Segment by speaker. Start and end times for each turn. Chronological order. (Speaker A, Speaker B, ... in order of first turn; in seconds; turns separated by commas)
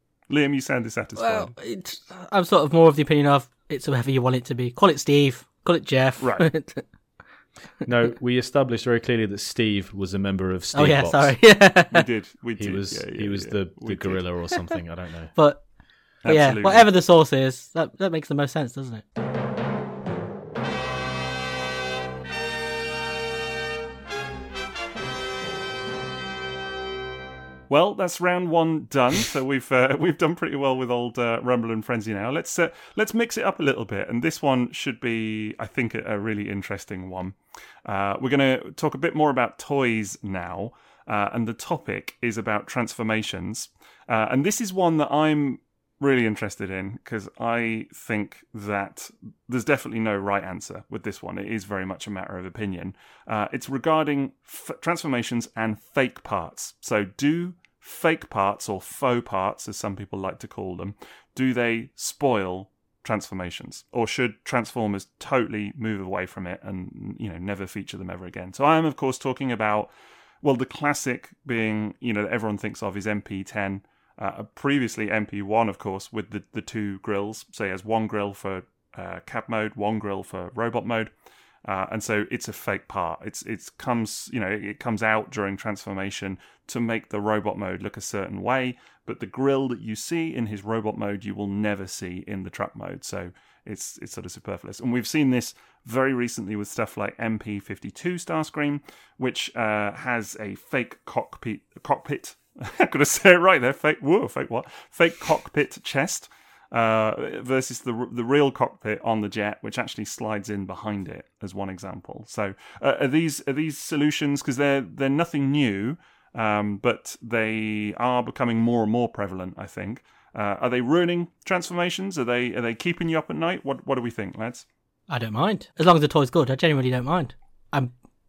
Speaker A: 0.3-1.5, Speaker B: 1.2-6.8, Speaker A: 6.2-6.5, Speaker C: 7.8-11.4, Speaker B: 10.7-12.0, Speaker A: 11.9-14.3, Speaker C: 12.6-15.3, Speaker B: 15.3-15.7, Speaker A: 16.2-16.9, Speaker B: 16.2-19.0, Speaker A: 27.7-69.9, Speaker A: 70.4-81.1, Speaker A: 81.6-124.6, Speaker B: 125.1-127.9